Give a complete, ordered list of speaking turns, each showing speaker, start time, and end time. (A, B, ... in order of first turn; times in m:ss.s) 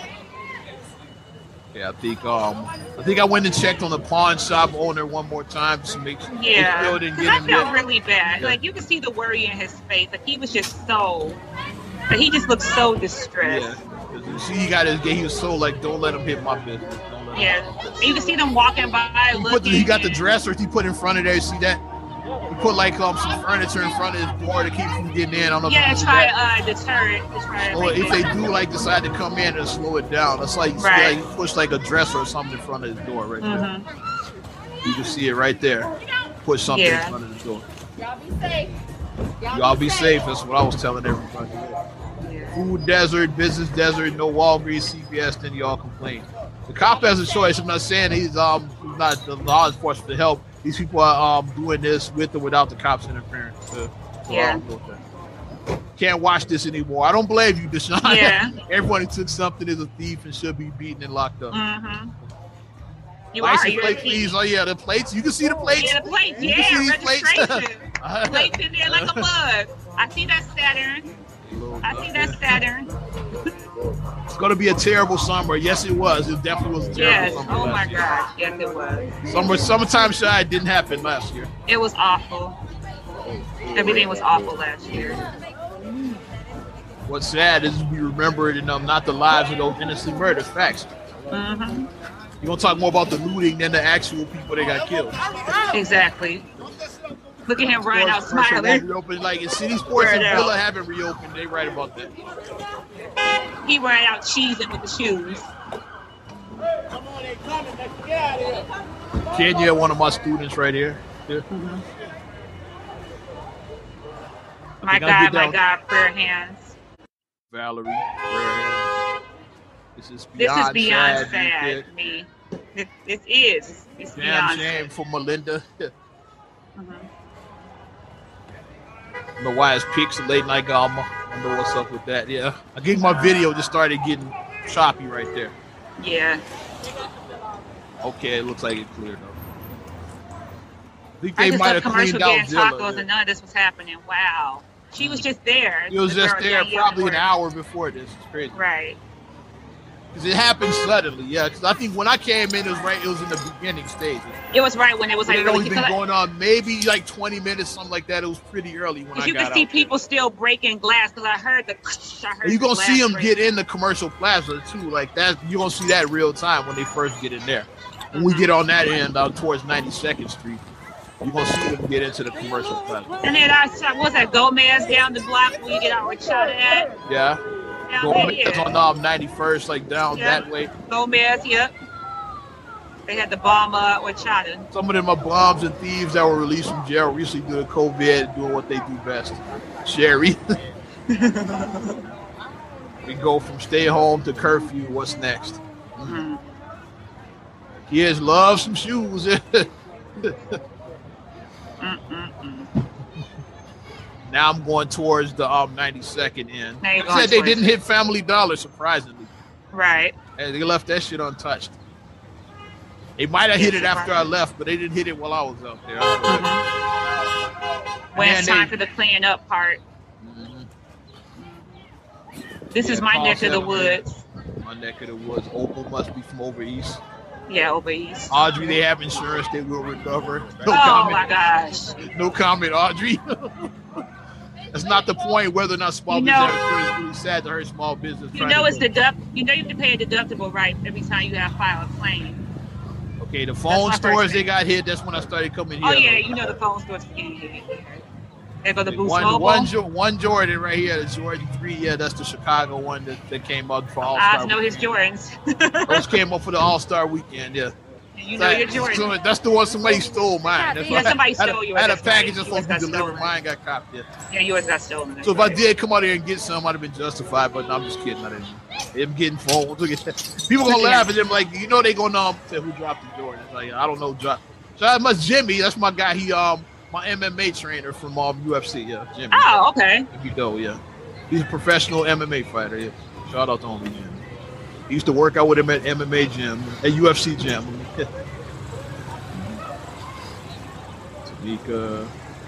0:01.7-0:07.7 A
0:06.3-0:11.4 B
0:12.1-0:13.8 B
0:13.4-0:18.0 A
0:17.3-0:20.2 B
0:19.3-0:21.8 A
0:22.5-0:26.3 A
0:25.6-0:28.4 B
0:27.6-0:33.7 A
0:30.8-0:31.2 B
0:33.4-0:33.8 B
0:34.8-0:35.9 A
0:36.4-0:37.6 A
0:36.7-0:37.1 B
0:39.5-0:41.8 A
0:42.2-0:42.6 B
0:42.5-0:55.0 A
0:54.3-0:54.6 B
0:56.0-1:01.6 A
0:58.0-0:58.6 B
1:01.5-1:02.1 B
1:03.3-1:04.3 B
1:03.4-1:09.2 A
1:05.8-1:11.1 B
1:11.4-1:12.6 A
1:11.8-1:12.9 B
1:14.3-1:18.1 A
1:16.9-1:19.1 B
1:19.2-1:21.5 A
1:21.7-1:22.6 B
1:23.7-1:25.2 B
1:27.1-1:30.9 A
1:31.3-1:31.9 B
1:32.4-1:35.1 A
1:35.7-1:36.5 B
1:37.5-1:38.8 B
1:37.7-1:42.1 A
1:39.9-1:40.5 B
1:43.6-1:45.5 B
1:49.3-1:51.4 A
1:51.5-1:51.8 B
1:54.8-1:56.7 B
1:54.8-1:55.6 A
1:57.5-1:58.9 A
2:00.0-2:01.9 A
2:00.4-2:04.9 B
2:04.2-2:05.9 A
2:06.8-2:07.1 B
2:09.4-2:15.6 A
2:13.0-2:13.3 B
2:16.0-2:16.4 B
2:18.0-2:19.4 A
2:21.2-2:23.0 A
2:21.4-2:27.2 B
2:25.0-2:25.2 A
2:25.9-2:28.6 A
2:28.5-2:29.0 B
2:30.1-2:34.4 A
2:34.5-2:35.9 B
2:35.2-2:40.0 A
2:39.1-2:43.3 B
2:42.4-2:50.6 A
2:48.1-2:48.5 B
2:51.2-2:53.1 A
2:53.2-2:56.9 B
2:57.1-2:57.4 A
2:57.9-2:58.7 B
2:58.0-3:00.7 A
3:00.1-3:01.7 B
3:03.1-3:04.7 B
3:04.7-3:10.4 A
3:11.1-3:12.0 B
3:13.0-3:16.2 A
3:16.0-3:16.4 B
3:17.9-3:19.7 A
3:21.8-3:22.7 B
3:24.2-3:29.3 A
3:26.8-3:27.7 B
3:29.7-3:30.2 B
3:30.4-3:31.7 A
3:33.2-3:36.5 A
3:33.5-3:34.3 B
3:36.3-3:36.6 B
3:38.1-3:39.8 B
3:38.1-3:38.7 A
3:40.2-3:40.7 A
3:41.4-3:41.8 B
3:42.7-3:44.2 B
3:42.8-3:44.0 A
3:44.6-3:47.0 A
3:47.5-3:48.4 B
3:48.3-3:51.2 A
3:50.6-3:52.0 B
3:52.0-3:53.7 A
3:54.7-3:58.8 A
3:56.1-3:56.6 B
3:58.3-4:02.4 B
4:03.2-4:06.5 A
4:03.7-4:04.4 B
4:05.8-4:08.0 B
4:08.6-4:09.7 B
4:08.9-4:14.9 A
4:14.0-4:16.2 B
4:15.9-4:17.7 A
4:18.2-4:19.1 B
4:18.4-4:24.1 A
4:20.8-4:23.3 B
4:24.3-4:25.6 B
4:25.2-4:39.5 A
4:30.6-4:31.1 B
4:39.3-4:40.1 B
4:40.1-4:40.8 A
4:41.3-4:44.2 A
4:44.9-4:48.0 A
4:51.2-4:52.1 A